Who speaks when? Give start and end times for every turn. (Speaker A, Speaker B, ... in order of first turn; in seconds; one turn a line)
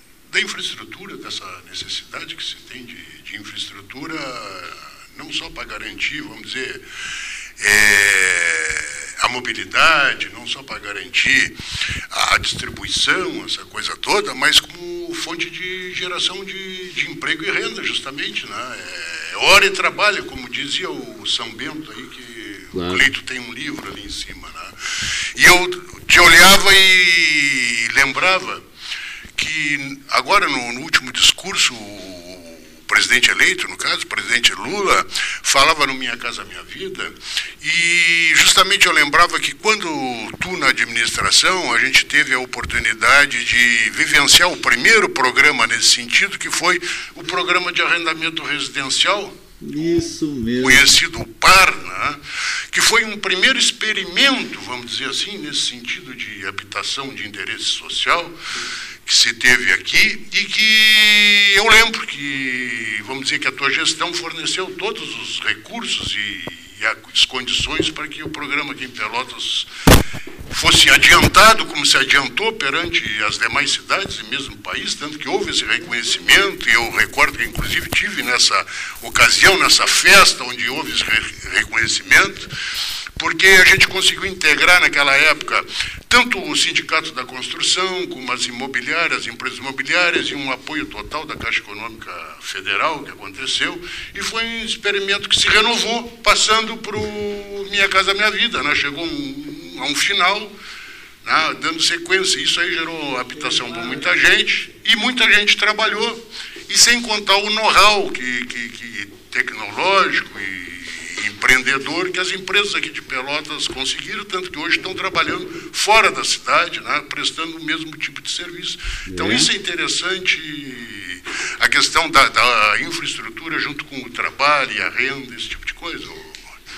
Speaker A: 0.3-6.8
Speaker A: 7.6-11.6
Speaker A: 12.1-24.7
Speaker B: 22.7-23.1
Speaker A: 25.4-28.6
Speaker A: 29.4-49.4
Speaker B: 49.6-50.9
Speaker A: 50.6-52.2
Speaker A: 52.7-58.4
Speaker A: 59.1-69.7
Speaker A: 70.5-82.5
Speaker A: 83.2-100.5
Speaker A: 101.2-126.4
Speaker B: 119.1-119.5